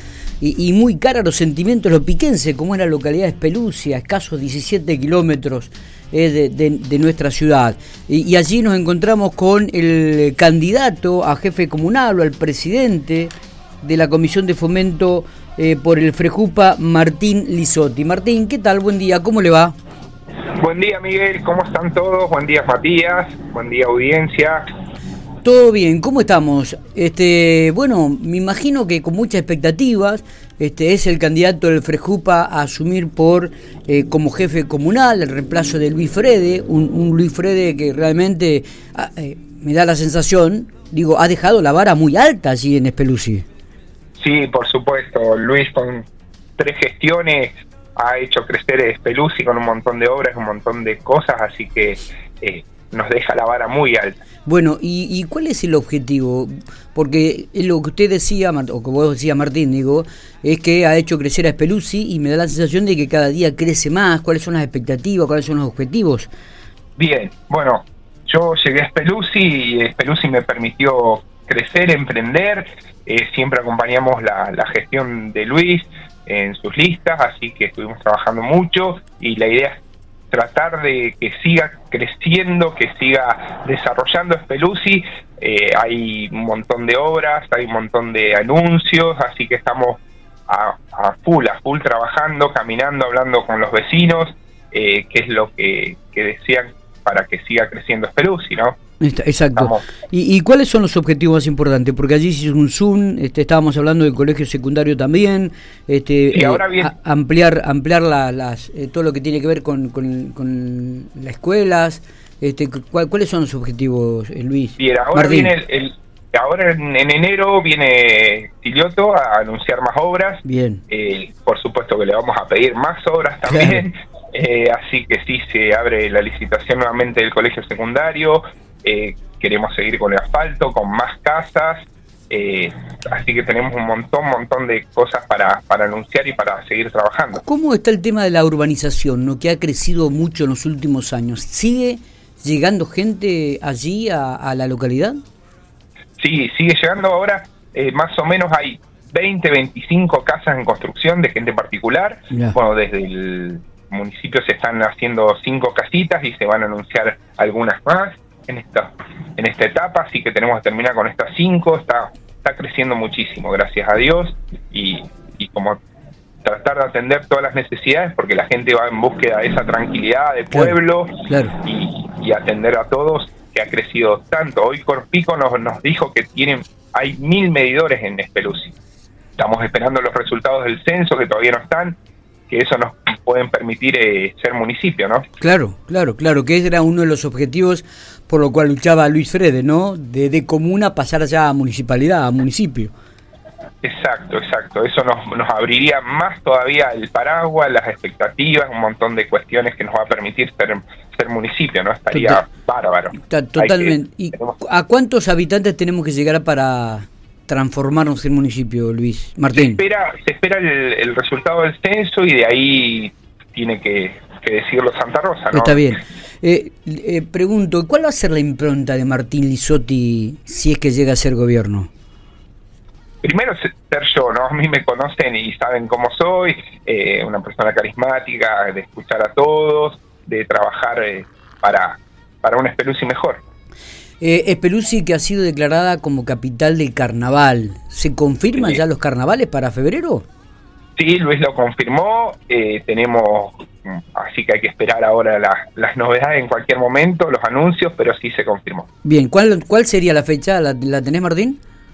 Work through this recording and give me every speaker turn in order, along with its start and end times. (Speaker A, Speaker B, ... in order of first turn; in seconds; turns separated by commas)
Speaker A: 0.4-19.8, Speaker B: 20.6-24.6, Speaker A: 25.4-43.5, Speaker B: 44.2-46.1, Speaker B: 46.6-54.2, Speaker A: 54.5-66.3, Speaker B: 67.0-98.8, Speaker A: 99.0-115.5, Speaker B: 99.6-99.9, Speaker B: 106.3-106.9, Speaker B: 114.8-137.4, Speaker A: 120.5-120.8, Speaker A: 123.5-123.8, Speaker A: 137.3-145.2, Speaker B: 146.2-165.8, Speaker A: 152.3-152.6, Speaker B: 166.4-178.7, Speaker A: 171.3-171.5, Speaker B: 179.4-182.0, Speaker B: 182.5-185.2, Speaker A: 185.4-192.9, Speaker B: 193.8-204.6, Speaker A: 202.1-202.4, Speaker A: 203.2-209.8, Speaker B: 209.5-215.9, Speaker A: 215.5-221.9, Speaker B: 223.2-233.4, Speaker A: 234.2-240.3, Speaker B: 241.0-248.9, Speaker A: 249.1-251.6